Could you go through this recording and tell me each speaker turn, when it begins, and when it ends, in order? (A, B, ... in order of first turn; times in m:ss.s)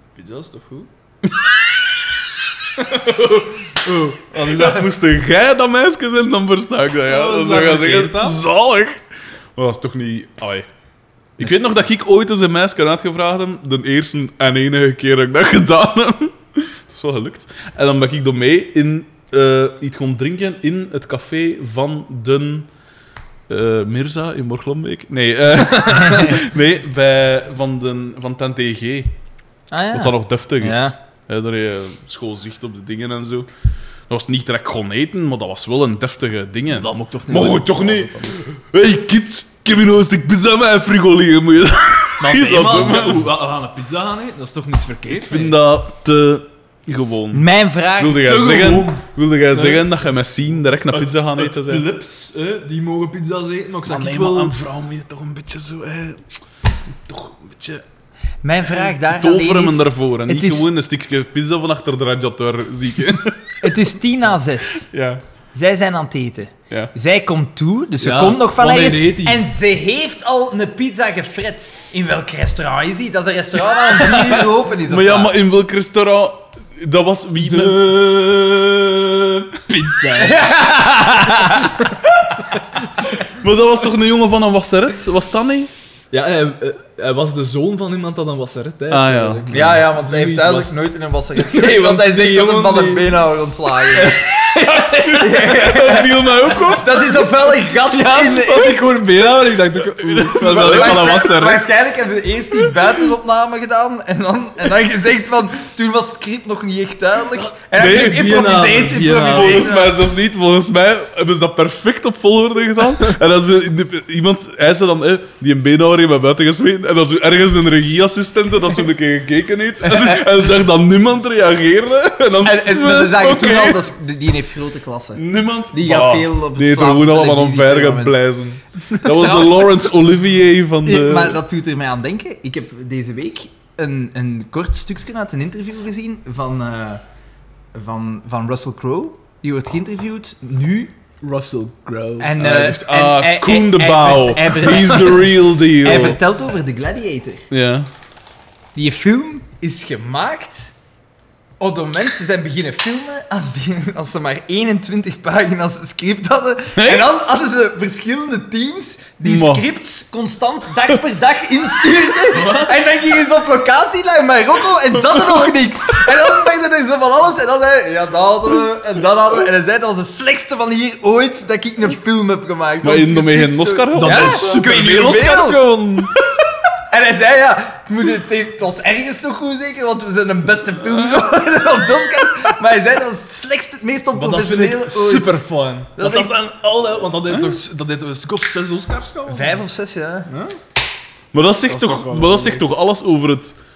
0:00.1-0:00.9 A
0:02.8-0:04.9 A
0:04.3-0:09.0 B
0:07.0-0:08.4 A
0:09.6-0:10.7 B
0:11.4-0:22.7 B
0:23.5-0:29.2 B
0:25.8-0:26.2 A
0:29.7-0:31.0 C
0:29.9-0:33.5 B
0:34.1-0:43.3 B
0:36.7-0:38.4 A
0:42.2-0:45.6 A
0:45.1-0:47.4 B
0:47.3-0:48.3 C
0:48.0-0:51.9 B
0:48.2-0:50.0 A
0:50.9-0:54.5 A
0:53.8-0:56.3 B
0:57.0-0:57.8 B
0:58.4-1:00.7 C
0:58.7-1:03.8 B
1:03.6-1:04.9 C
1:04.8-1:05.2 B
1:05.5-1:15.3 C
1:08.0-1:09.4 A
1:14.0-1:14.4 A
1:14.8-1:17.9 B
1:17.4-1:20.6 A
1:20.2-1:22.1 C
1:23.2-1:25.7 B
1:26.1-1:33.1 A
1:28.9-1:29.8 B
1:29.5-1:34.4 C
1:33.9-1:35.5 A
1:34.7-1:37.1 B
1:35.1-1:38.8 C
1:37.7-1:41.7 A
1:39.8-1:41.3 B
1:40.3-1:50.0 C
1:47.3-1:49.7 A
1:47.8-1:48.3 B
1:49.2-2:03.8 B
1:59.8-2:00.2 C
2:02.4-2:08.2 C
2:05.2-2:11.4 B
2:08.9-2:09.8 C
2:10.8-2:17.0 C
2:17.7-2:20.9 C
2:21.2-2:22.3 A
2:22.2-2:27.5 C
2:22.4-2:26.2 B
2:27.5-2:27.9 B
2:28.7-2:30.7 C
2:31.6-2:55.7 C
2:36.8-2:37.1 B
2:39.2-2:39.6 B
2:42.3-2:42.7 A
2:45.0-2:45.5 B
2:52.8-2:54.6 B
2:53.9-2:56.2 A
2:56.9-3:05.4 C
3:04.1-3:09.6 A
3:05.9-3:06.4 C
3:07.3-3:07.6 B
3:09.3-3:10.3 C
3:10.3-3:10.5 A
3:11.3-3:13.5 B
3:11.7-3:12.6 A